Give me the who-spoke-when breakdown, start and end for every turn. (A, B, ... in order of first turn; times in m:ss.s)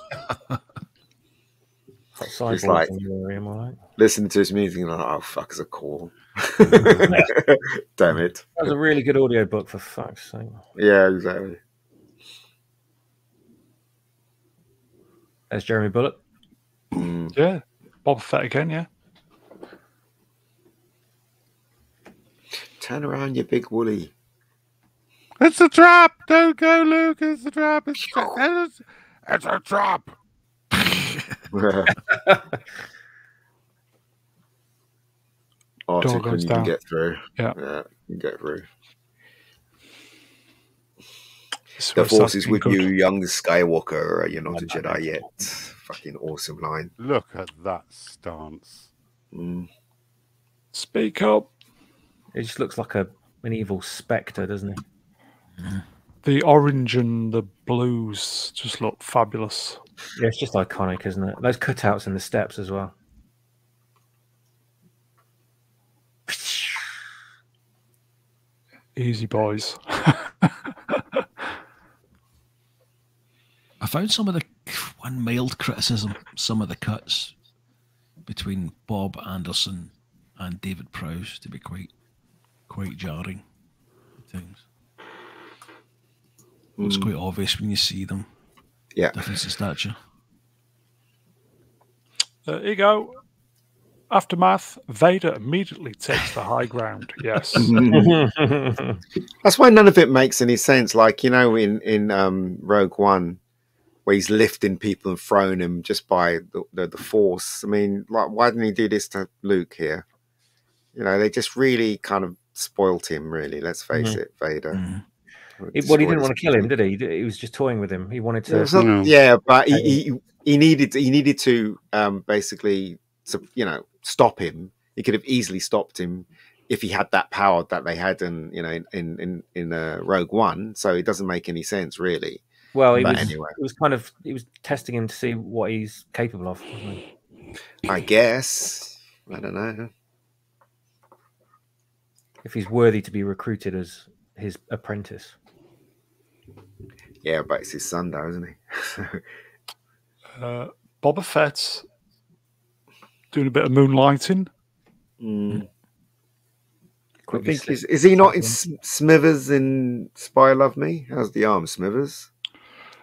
0:02.2-0:03.8 A
0:02.5-0:02.9 B
0:04.0-0:08.7 B
0:06.9-0:07.3 A
0:08.6-0:10.6 A
0:10.8-0:11.6 B
0:15.5-0:16.2 A
0:16.9-0:17.4 B
0:17.4-0:18.9 C
0:22.8-0:24.1 B
0:25.4-0:30.2 D
0:31.5-0:32.0 B
0:35.9-0:38.7 B
0:36.0-0:36.7 C
0:41.8-0:42.9 C
0:42.0-0:46.9 B
0:44.5-0:45.3 A
0:47.0-0:48.9 D
0:49.3-0:49.7 B
0:50.7-0:51.5 C
0:52.3-0:54.8 A
0:56.2-0:59.8 C
1:00.2-1:03.0 A
1:06.3-1:06.8 A
1:09.0-1:11.2 C
1:13.8-1:17.3 E
1:18.3-1:21.9 E
1:22.7-1:23.4 E
1:24.3-1:24.6 E
1:26.8-1:27.1 B
1:26.8-1:28.3 E
1:29.0-1:29.2 B
1:29.1-1:30.0 E
1:32.5-1:33.2 C
1:34.1-1:37.9 C
1:37.5-1:38.2 B
1:37.9-1:39.0 A
1:39.4-1:43.4 B
1:44.1-1:50.0 B
1:51.0-1:54.8 B
1:53.9-1:54.2 A
1:54.7-1:55.0 E
1:55.6-1:56.7 B
1:55.7-1:58.8 A
1:58.5-2:12.4 B
1:58.7-1:59.1 D
1:59.7-2:00.0 A
2:12.7-2:17.0 A
2:13.0-2:13.6 B
2:17.9-2:19.9 B
2:22.4-2:25.4 A
2:27.2-2:29.2 B
2:30.4-2:31.9 C
2:33.3-2:34.5 C
2:35.2-2:35.7 B
2:37.3-2:38.6 A
2:37.3-2:42.3 B